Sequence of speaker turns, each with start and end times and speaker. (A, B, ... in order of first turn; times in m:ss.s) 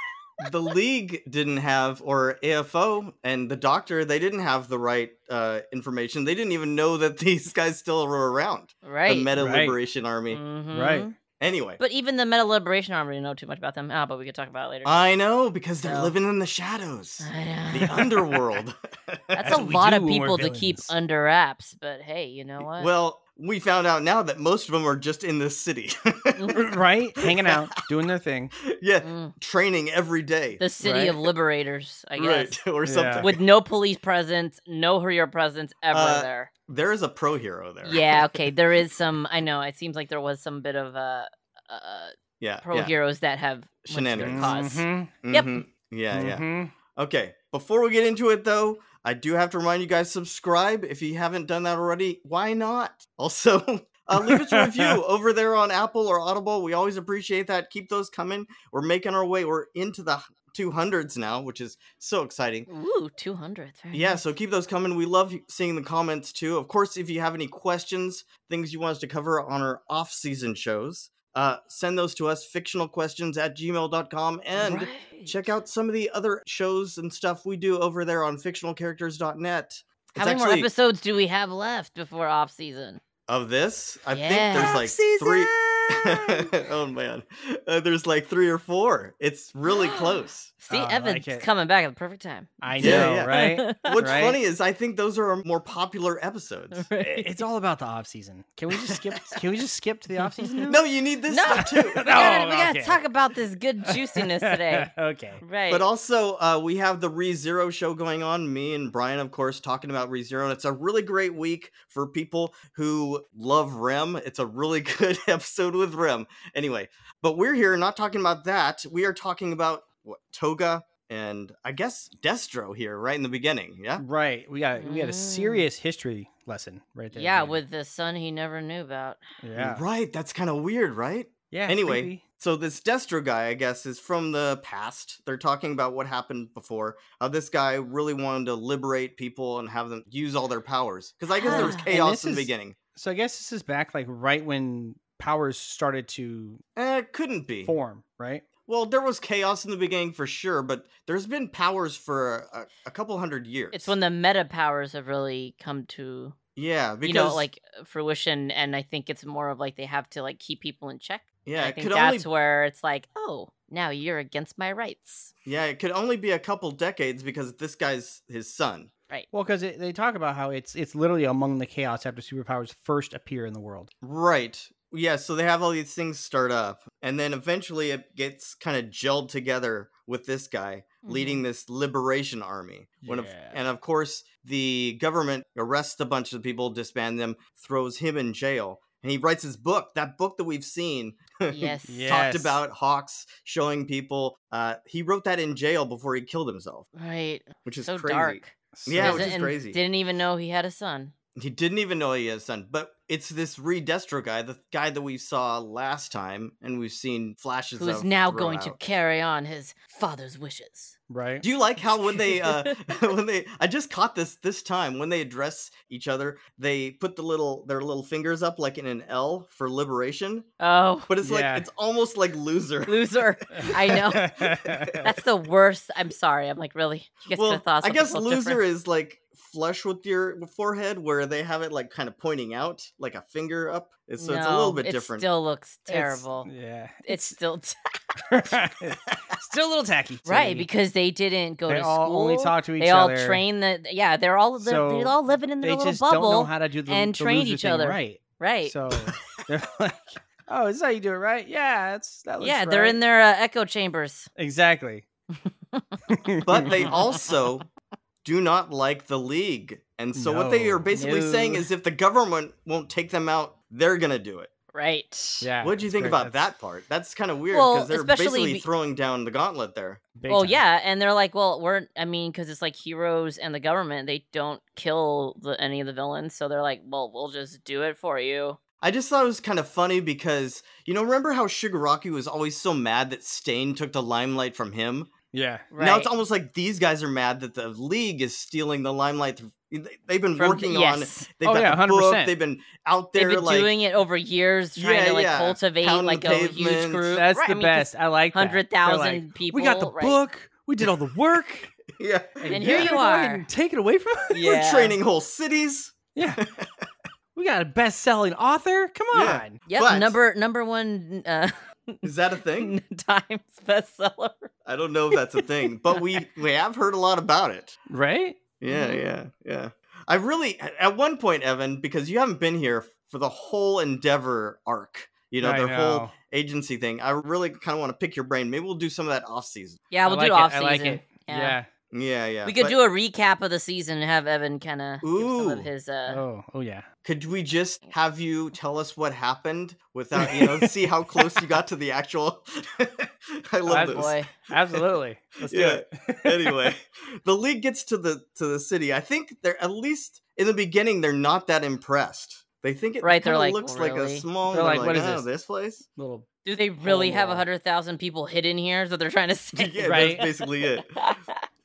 0:00.4-0:10.4 A
0:08.8-0:09.3 B
0:09.4-0:09.8 C
0:10.3-0:11.1 B
0:10.7-0:11.1 C
0:11.4-0:11.8 A
0:11.8-0:15.0 B
0:14.8-0:19.6 A
0:15.8-0:16.1 B
0:17.2-0:18.4 B
0:19.3-0:22.9 B
0:19.4-0:20.9 C
0:22.6-0:27.7 A
0:26.4-0:26.6 B
0:26.5-0:28.6 C
0:28.6-0:30.6 A
0:29.0-0:29.3 B
0:30.6-0:32.6 B
0:30.8-0:31.1 C
0:32.2-0:33.5 A
0:32.8-0:33.3 C
0:33.2-0:36.5 B
0:35.9-0:38.5 A
0:37.8-0:45.6 B
0:42.4-0:42.9 A
0:43.9-0:44.7 A
0:44.2-0:45.1 C
0:45.2-1:02.7 A
0:46.1-0:46.7 C
0:54.2-0:55.0 C
1:02.7-1:04.2 B
1:03.9-1:20.7 A
1:14.5-1:15.5 B
1:20.1-1:23.0 B
1:23.3-1:30.5 A
1:24.1-1:25.2 B
1:24.6-1:25.9 C
1:29.7-1:34.0 B
1:30.7-1:31.5 C
1:32.6-1:34.4 C
1:32.8-1:36.9 A
1:36.7-1:37.4 B
1:37.0-1:40.8 C
1:38.7-1:39.1 A
1:40.4-1:40.8 B
1:40.7-1:42.1 A
1:41.3-1:45.9 B
1:41.5-1:43.0 C
1:43.9-1:45.4 C
1:45.7-2:04.0 A
2:04.0-2:07.6 C
2:04.8-2:05.7 B
2:07.1-2:09.2 B
2:09.4-2:09.8 C
2:09.6-2:22.8 A
2:11.5-2:12.2 C
2:21.4-2:21.9 B
2:21.4-2:26.6 C
2:26.8-2:27.8 A
2:27.6-2:28.4 C
2:28.7-2:33.9 A
2:33.7-2:36.4 B
2:36.6-2:37.4 A
2:37.0-2:45.3 B
2:41.4-2:42.3 A
2:45.5-2:48.9 A
2:49.3-2:53.9 C
2:54.0-3:16.9 A
3:01.0-3:01.4 B
3:03.0-3:03.6 C
3:11.5-3:12.0 B
3:11.9-3:12.6 C
3:17.0-3:21.1 B
3:17.6-3:19.8 A
3:18.7-3:19.4 C
3:21.4-3:28.8 A
3:27.8-3:31.0 B
3:31.1-3:31.4 C
3:31.4-3:40.5 A
3:32.2-3:32.9 B
3:40.6-3:41.1 B
3:41.1-3:44.0 A
3:41.2-3:41.7 C
3:42.9-3:44.3 B
3:43.5-3:45.1 C
3:44.6-3:45.1 A
3:45.0-3:48.6 B
3:47.3-3:55.3 A
3:54.2-3:56.5 B
3:55.9-3:57.4 C
3:57.1-3:57.8 B
3:58.3-4:00.7 C
4:00.3-4:08.8 B
4:01.7-4:03.4 C
4:04.6-4:13.0 C
4:12.4-4:14.3 B
4:14.4-4:15.0 C
4:16.1-4:16.9 C
4:16.4-4:17.7 A
4:16.7-4:17.4 B
4:18.2-4:24.5 A
4:20.2-4:20.9 C
4:20.9-4:21.7 B
4:24.7-4:25.5 B
4:25.4-4:26.5 C
4:25.6-4:30.0 A
4:27.5-4:28.7 B
4:30.2-4:30.6 C
4:30.3-4:38.6 B
4:38.8-4:45.1 A
4:45.3-4:45.7 C
4:45.7-4:46.1 B
4:45.8-4:53.8 A
4:50.4-4:51.3 B
4:51.4-4:52.3 C
4:53.2-5:00.2 B
4:54.8-4:57.2 A
4:57.1-5:01.7 C
5:01.9-5:02.9 A
5:02.4-5:04.4 C
5:02.5-5:03.5 B
5:04.3-5:05.0 B
5:04.4-5:06.9 A
5:06.2-5:06.4 C
5:07.4-5:09.6 C
5:09.1-5:10.2 A
5:09.7-5:12.0 B
5:12.0-5:12.7 A
5:12.6-5:14.5 B
5:14.6-5:17.8 A
5:17.9-5:18.4 C
5:18.6-5:29.8 A
5:18.7-5:19.1 B
5:25.4-5:26.1 C
5:29.9-5:31.6 B
5:30.0-5:31.7 C
5:31.9-5:32.8 A
5:32.4-5:36.2 B
5:35.0-5:35.7 A
5:36.1-5:36.9 C
5:37.0-5:44.8 A
5:40.2-5:40.7 C
5:43.7-5:46.7 C
5:43.8-5:44.3 B
5:45.5-5:55.8 A
5:53.0-5:54.3 B
5:54.5-5:55.3 C
5:56.0-5:56.3 C
5:56.4-6:01.4 B
5:56.8-5:57.4 C
5:59.5-6:00.9 A
5:59.8-6:00.2 C